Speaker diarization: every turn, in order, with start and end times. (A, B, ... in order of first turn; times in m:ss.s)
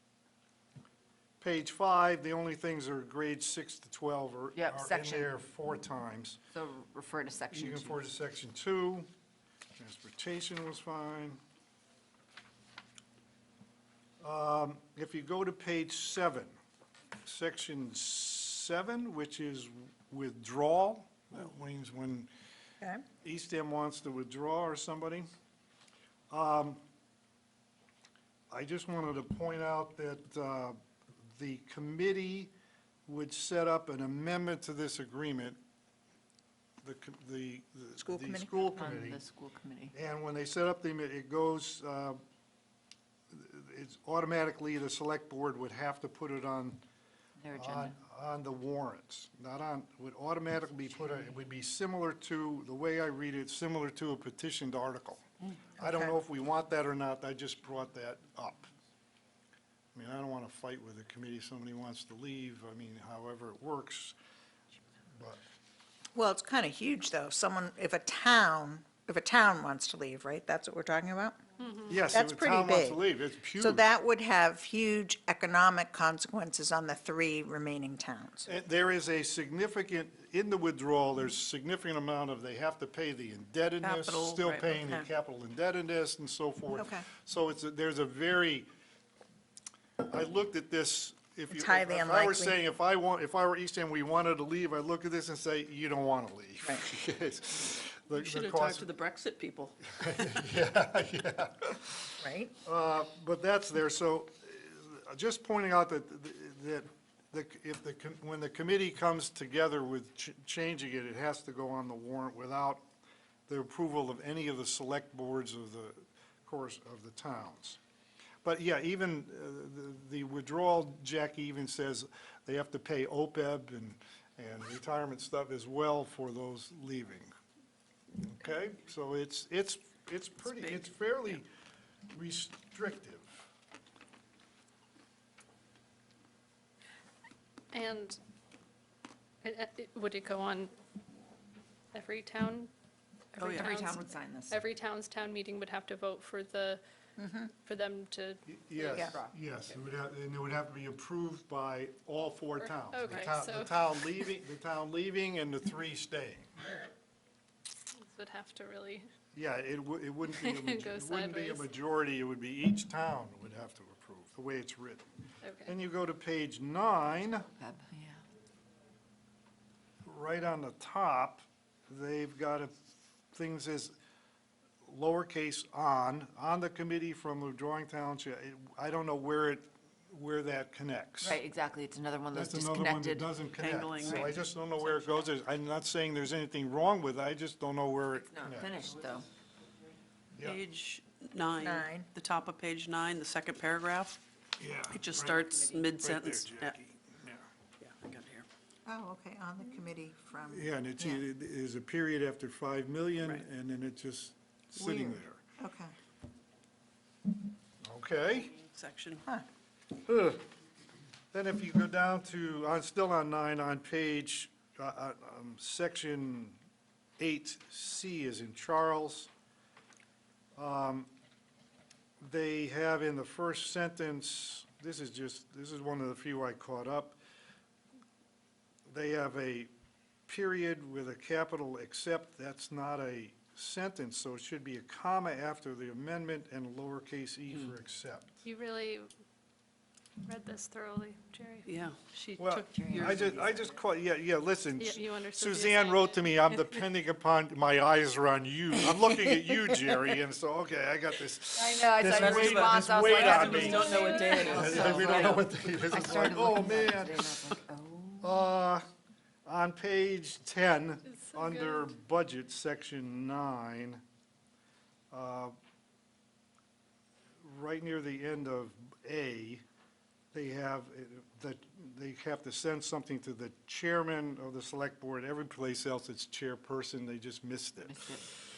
0:01.4-0:06.4 A
0:04.6-0:05.3 B
0:06.5-0:08.1 B
0:07.5-0:09.1 A
0:09.8-0:11.4 A
0:14.2-0:16.6 A
0:17.2-0:22.3 A
0:23.2-0:25.3 A
0:26.3-0:26.8 A
0:28.5-0:30.8 A
0:31.4-0:32.5 A
0:33.1-0:35.6 A
0:36.8-0:39.2 A
0:38.0-0:38.6 C
0:38.7-0:39.9 B
0:39.9-0:42.2 A
0:43.3-0:46.8 A
0:47.4-0:48.0 B
0:47.6-0:55.2 A
0:55.8-0:58.7 A
0:55.8-0:56.1 C
1:00.0-1:04.2 A
1:06.2-1:11.4 C
1:11.6-1:12.0 D
1:11.9-1:13.8 A
1:12.1-1:13.0 C
1:13.6-1:18.5 C
1:18.5-1:28.7 A
1:23.8-1:24.8 E
1:26.7-1:27.0 C
1:30.1-1:38.9 A
1:31.5-1:32.6 C
1:38.1-1:40.4 E
1:39.9-1:52.8 A
1:42.2-1:42.6 C
1:53.5-1:57.8 A
1:58.4-2:07.3 A
2:08.2-2:11.5 A
2:10.4-2:10.9 E
2:12.1-2:13.5 A
2:17.7-2:18.2 D
2:19.4-2:20.7 D
2:21.9-2:22.7 D
2:23.3-2:26.8 D
2:23.4-2:23.8 E
2:23.6-2:24.6 B
2:27.2-2:27.5 C
2:27.6-2:29.2 D
2:28.5-2:36.5 A
2:28.9-2:29.2 C
2:32.6-2:34.3 D
2:38.0-2:39.1 D
2:39.3-2:45.1 A
2:40.3-2:41.7 D
2:45.4-2:45.8 D
2:45.7-2:47.5 A
2:47.6-2:48.2 B
2:50.0-2:52.7 A
2:53.3-2:53.9 A
2:54.8-3:01.4 A
3:01.2-3:03.3 B
3:02.3-3:08.9 A
3:03.6-3:04.3 E
3:04.0-3:05.2 B
3:08.1-3:09.3 B
3:10.4-3:14.2 E
3:11.6-3:12.1 C
3:14.6-3:15.4 A
3:14.9-3:16.8 E
3:15.1-3:15.9 B
3:16.0-3:17.5 A
3:17.8-3:18.5 E
3:18.9-3:21.2 C
3:20.5-3:25.4 A
3:24.8-3:25.9 C
3:27.8-3:28.5 A
3:28.5-3:29.2 E
3:30.0-3:30.4 A
3:31.3-3:36.6 A
3:37.2-3:39.3 A
3:40.6-3:41.1 A
3:42.2-3:47.2 A
3:48.9-3:49.7 A
3:50.3-3:58.4 A
3:58.4-3:59.1 D
4:00.2-4:02.6 D
4:01.7-4:02.0 E
4:02.4-4:17.3 A
4:02.6-4:03.4 E
4:02.7-4:03.8 B
4:04.8-4:06.8 D
4:11.6-4:18.4 B
4:12.1-4:15.4 E
4:13.8-4:14.8 D
4:18.2-4:18.8 A
4:19.5-4:24.0 A
4:21.1-4:21.9 D
4:25.1-4:25.5 A
4:27.4-4:29.6 A
4:30.3-4:38.0 A
4:37.8-4:38.3 B